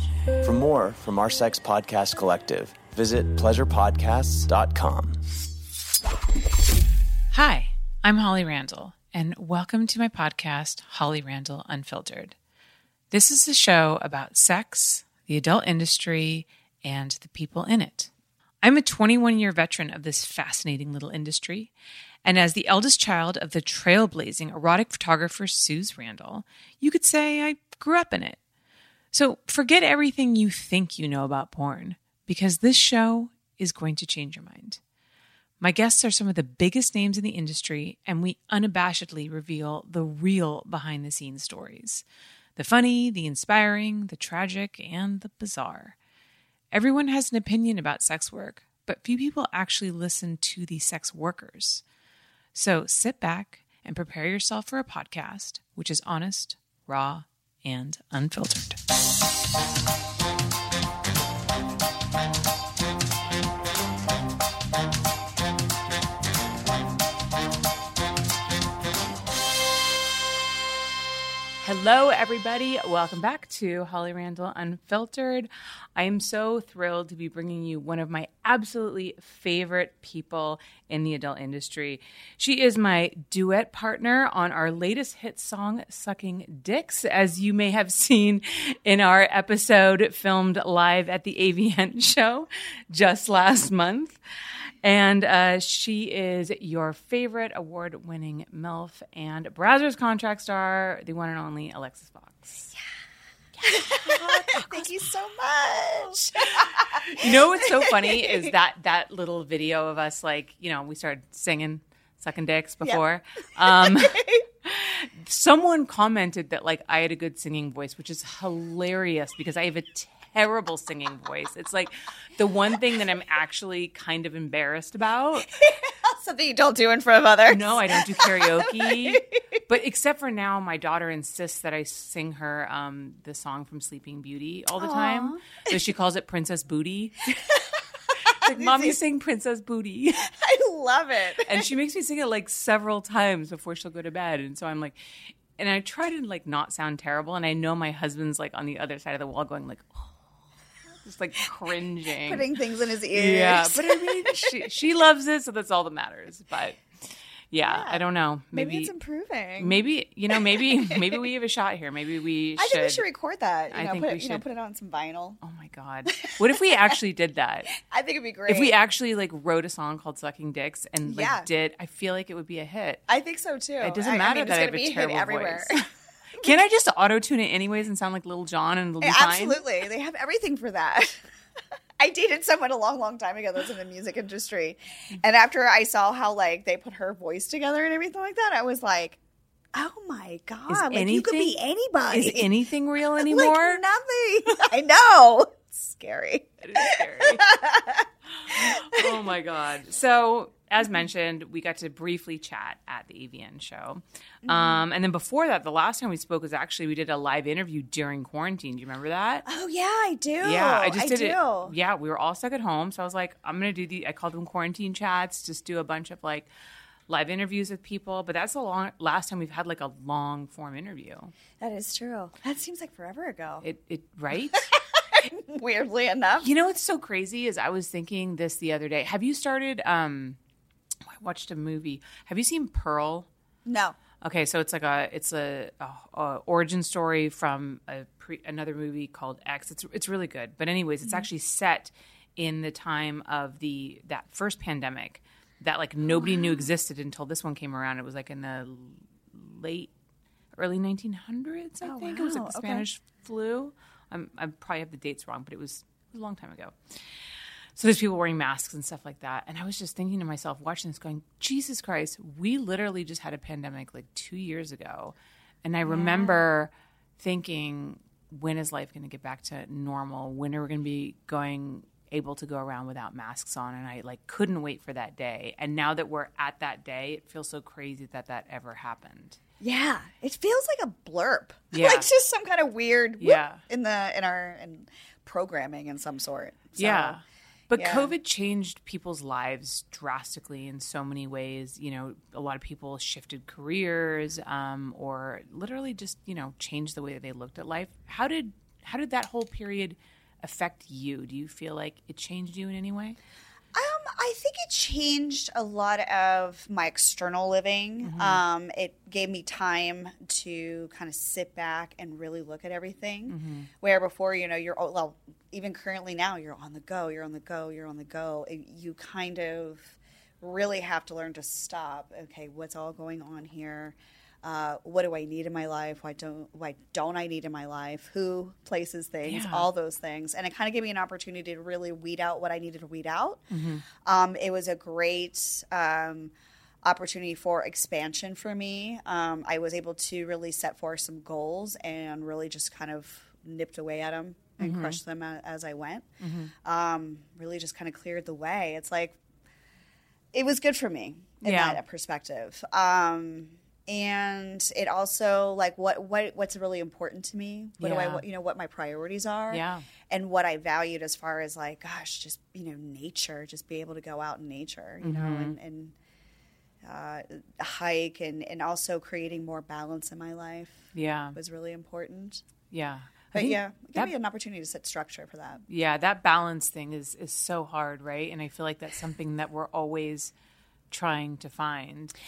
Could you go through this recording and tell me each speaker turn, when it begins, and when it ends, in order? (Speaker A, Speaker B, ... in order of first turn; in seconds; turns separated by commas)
Speaker A: 0.4-5.2, Speaker B: 7.3-12.3, Speaker B: 13.1-18.1, Speaker B: 18.6-21.7, Speaker B: 22.2-28.4, Speaker B: 29.1-34.8, Speaker B: 35.6-46.0, Speaker B: 46.7-51.8, Speaker B: 52.5-58.8, Speaker B: 71.6-94.2, Speaker B: 94.8-102.7, Speaker B: 103.6-104.9, Speaker C: 103.7-108.5, Speaker B: 106.4-125.5, Speaker C: 113.6-114.4, Speaker C: 125.5-129.6, Speaker B: 127.5-137.5, Speaker C: 134.8-135.7, Speaker C: 137.5-139.0, Speaker B: 138.2-140.3, Speaker C: 140.3-141.7, Speaker B: 141.4-150.2, Speaker B: 151.0-152.4, Speaker C: 152.2-154.5, Speaker B: 153.1-158.9, Speaker C: 157.6-159.8, Speaker B: 159.6-163.0, Speaker C: 160.3-161.2, Speaker C: 162.6-165.4, Speaker B: 163.7-164.4, Speaker B: 165.4-167.7, Speaker C: 166.1-166.9, Speaker C: 167.8-168.7, Speaker B: 168.5-173.0, Speaker C: 171.1-171.5, Speaker C: 173.1-175.8, Speaker B: 173.8-179.6, Speaker C: 179.0-181.2, Speaker C: 182.0-189.2, Speaker C: 189.7-192.5, Speaker B: 190.7-193.8, Speaker C: 193.2-199.3, Speaker B: 196.6-197.4, Speaker B: 198.3-209.4, Speaker C: 204.4-204.8, Speaker C: 209.4-211.7, Speaker B: 210.4-216.5, Speaker B: 217.1-221.3, Speaker C: 221.6-223.7, Speaker B: 223.6-224.7, Speaker C: 224.5-226.5, Speaker B: 226.4-230.4, Speaker B: 231.1-233.3, Speaker C: 233.7-234.0, Speaker B: 234.2-249.9, Speaker C: 246.1-246.7, Speaker B: 250.5-279.4, Speaker C: 251.8-252.9, Speaker C: 265.9-266.4, Speaker C: 279.6-287.2, Speaker B: 281.7-282.1, Speaker B: 283.2-283.6, Speaker B: 286.8-303.2, Speaker C: 287.7-288.1, Speaker C: 303.7-333.4, Speaker B: 308.0-308.4, Speaker B: 313.3-313.7, Speaker B: 329.2-329.7, Speaker B: 333.5-333.8, Speaker C: 334.0-349.2, Speaker B: 344.6-345.0, Speaker B: 346.2-346.5, Speaker C: 350.3-365.9, Speaker B: 351.4-351.8, Speaker B: 357.8-358.2, Speaker B: 359.5-359.9, Speaker B: 365.0-365.6, Speaker C: 366.8-372.4, Speaker B: 370.9-371.4, Speaker B: 372.7-374.1, Speaker C: 373.3-375.6, Speaker B: 375.7-380.3, Speaker B: 380.9-382.1